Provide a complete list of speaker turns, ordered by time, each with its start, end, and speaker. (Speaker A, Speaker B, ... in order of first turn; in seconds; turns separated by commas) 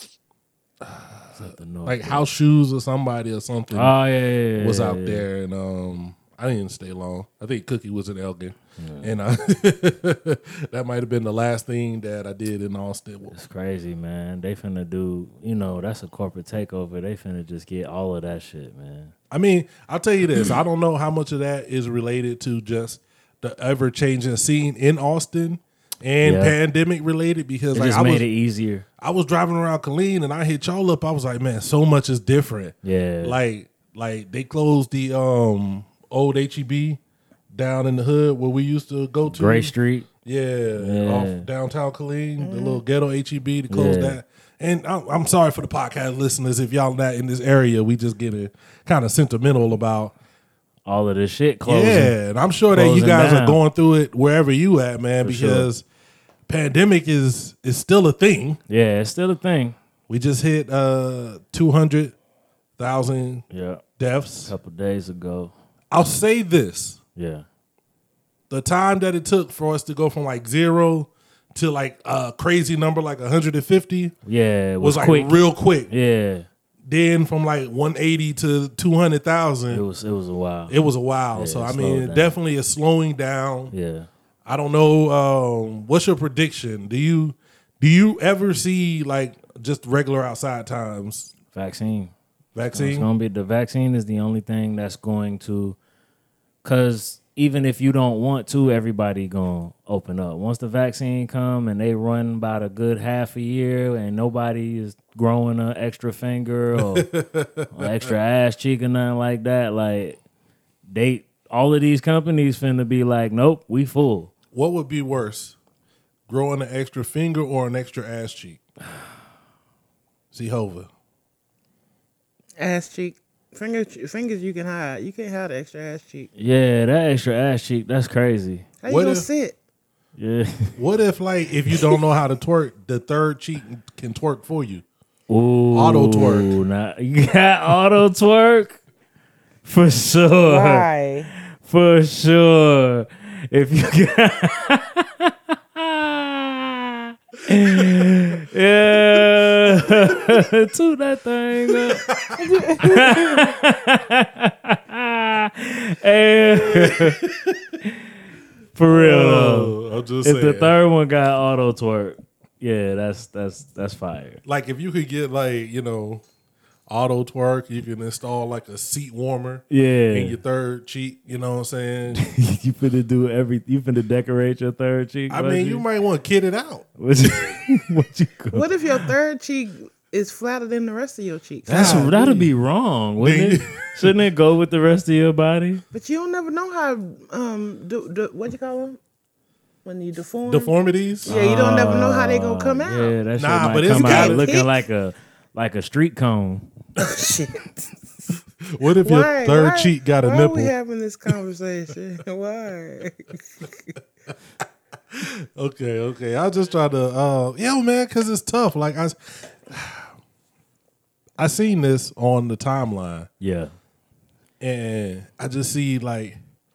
Speaker A: 0.8-4.0, Speaker B: 1.4-2.2, Speaker B: 3.7-5.2, Speaker A: 4.5-13.3, Speaker B: 8.8-9.1, Speaker B: 13.3-19.1, Speaker A: 19.3-28.2, Speaker B: 26.2-26.5, Speaker B: 27.7-28.9, Speaker A: 29.0-37.0, Speaker B: 32.8-33.4, Speaker A: 37.5-50.1, Speaker B: 39.3-40.1, Speaker B: 40.8-41.5, Speaker C: 42.4-42.8, Speaker B: 43.7-44.2, Speaker B: 50.9-52.1, Speaker A: 51.6-55.8, Speaker B: 52.7-53.6, Speaker B: 55.2-55.7, Speaker A: 56.5-58.6, Speaker B: 58.7-59.8, Speaker A: 60.1-62.1, Speaker A: 62.8-63.5, Speaker B: 63.5-63.8, Speaker A: 64.0-64.5, Speaker B: 64.5-65.5, Speaker A: 65.9-67.0, Speaker B: 67.2-67.5, Speaker A: 68.5-74.1, Speaker B: 74.2-76.5, Speaker A: 74.8-75.9, Speaker A: 76.9-79.8, Speaker B: 79.7-80.8, Speaker A: 80.7-83.7, Speaker B: 81.3-82.3, Speaker B: 83.7-84.1, Speaker A: 84.5-91.3, Speaker B: 91.5-92.1, Speaker A: 92.5-93.1, Speaker B: 92.7-95.8, Speaker B: 96.6-107.1, Speaker A: 106.8-108.1, Speaker B: 107.7-110.2, Speaker B: 110.9-114.3, Speaker A: 114.5-115.5, Speaker A: 116.3-118.6, Speaker A: 120.3-120.9, Speaker C: 122.6-126.3, Speaker B: 126.4-128.7, Speaker C: 128.8-129.5, Speaker A: 128.9-129.2, Speaker B: 130.2-130.8, Speaker A: 130.8-134.8, Speaker B: 135.3-138.8, Speaker A: 135.7-136.5, Speaker B: 139.6-140.9, Speaker C: 140.5-141.3, Speaker B: 141.6-152.1, Speaker A: 147.7-148.1, Speaker A: 149.2-150.4, Speaker A: 151.7-152.4, Speaker C: 152.4-153.4, Speaker B: 152.8-157.2, Speaker A: 156.6-157.6, Speaker B: 158.8-164.4, Speaker A: 158.9-160.7, Speaker A: 164.4-166.2, Speaker A: 166.9-172.3, Speaker B: 169.7-170.4, Speaker B: 172.1-175.8, Speaker A: 175.3-176.9, Speaker B: 177.0-178.7, Speaker C: 178.5-182.1, Speaker A: 181.7-182.5, Speaker B: 181.7-185.8, Speaker A: 183.2-184.2, Speaker C: 185.9-189.0, Speaker C: 189.8-190.7, Speaker A: 190.5-191.3, Speaker C: 191.2-193.1, Speaker B: 191.2-196.7, Speaker A: 193.4-194.5, Speaker C: 193.9-194.7, Speaker C: 197.0-197.9, Speaker A: 198.7-200.7, Speaker C: 199.0-203.7, Speaker A: 205.1-210.1, Speaker A: 211.4-213.3, Speaker B: 213.4-213.7, Speaker A: 214.6-216.4